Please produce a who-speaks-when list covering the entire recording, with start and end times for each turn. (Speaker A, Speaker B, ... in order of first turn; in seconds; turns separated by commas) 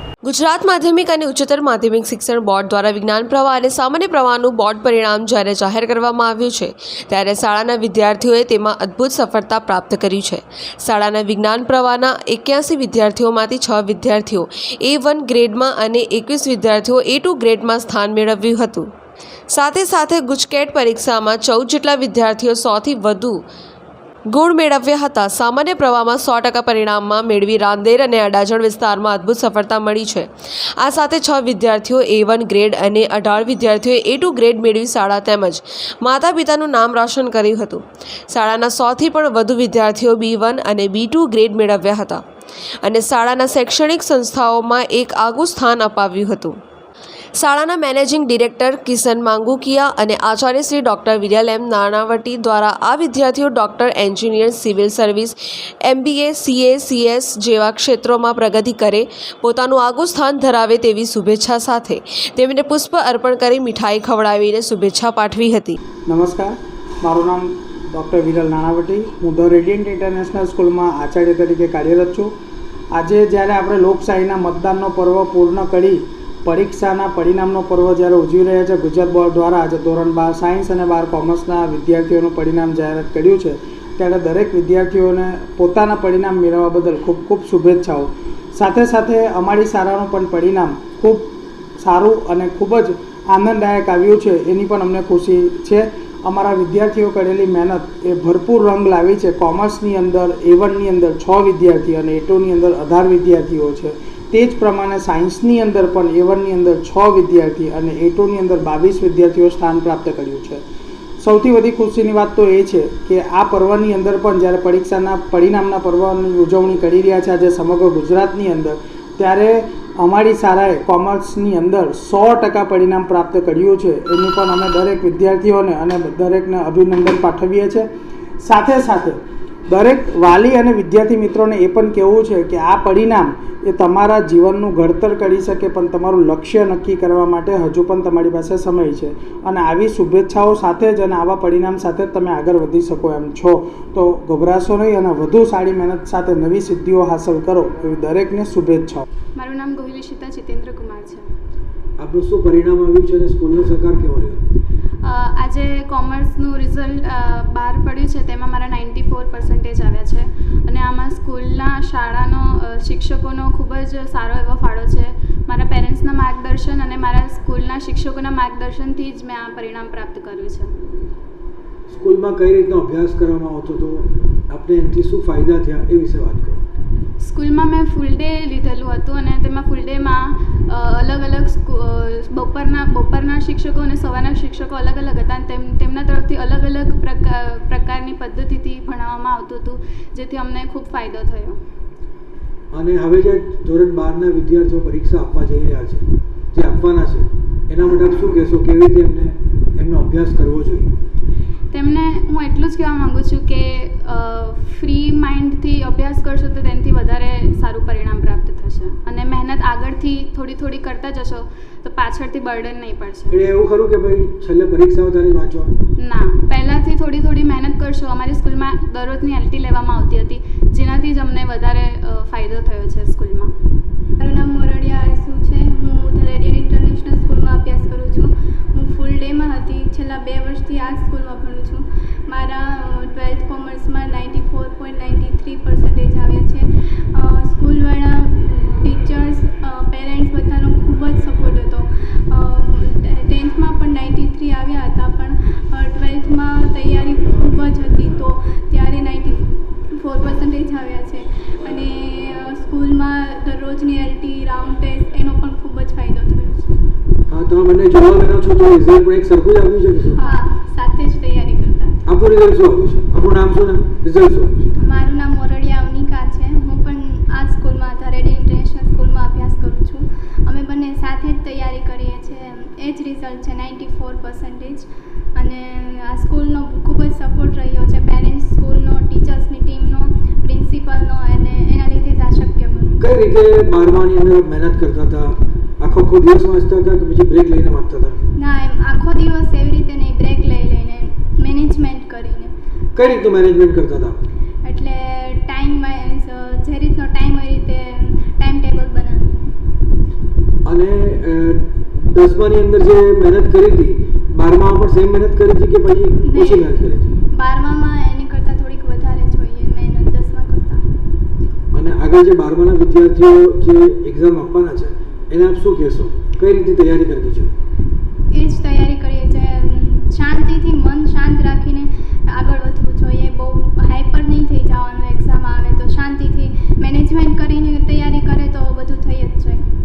Speaker A: 0.2-18.9, Speaker A: 19.5-23.4, Speaker A: 24.3-42.2, Speaker A: 42.8-46.6, Speaker A: 47.4-65.8, Speaker B: 66.1-72.3, Speaker B: 72.9-110.6, Speaker B: 111.2-127.9, Speaker B: 128.4-149.0, Speaker C: 149.4-151.2, Speaker D: 152.0-154.4, Speaker C: 155.0-170.7, Speaker D: 171.9-176.6, Speaker C: 177.2-191.6, Speaker D: 192.7-200.9, Speaker C: 201.7-213.4, Speaker D: 213.3-215.7, Speaker C: 216.0-223.5, Speaker E: 224.2-256.7, Speaker D: 257.3-260.2, Speaker E: 260.2-262.0, Speaker D: 262.1-264.7, Speaker E: 264.8-283.0, Speaker D: 283.0-288.2, Speaker E: 288.4-292.5, Speaker D: 292.9-294.2, Speaker E: 294.6-299.6, Speaker D: 300.6-307.1, Speaker E: 306.2-306.7, Speaker E: 307.3-310.9, Speaker D: 311.7-317.5, Speaker E: 318.3-329.6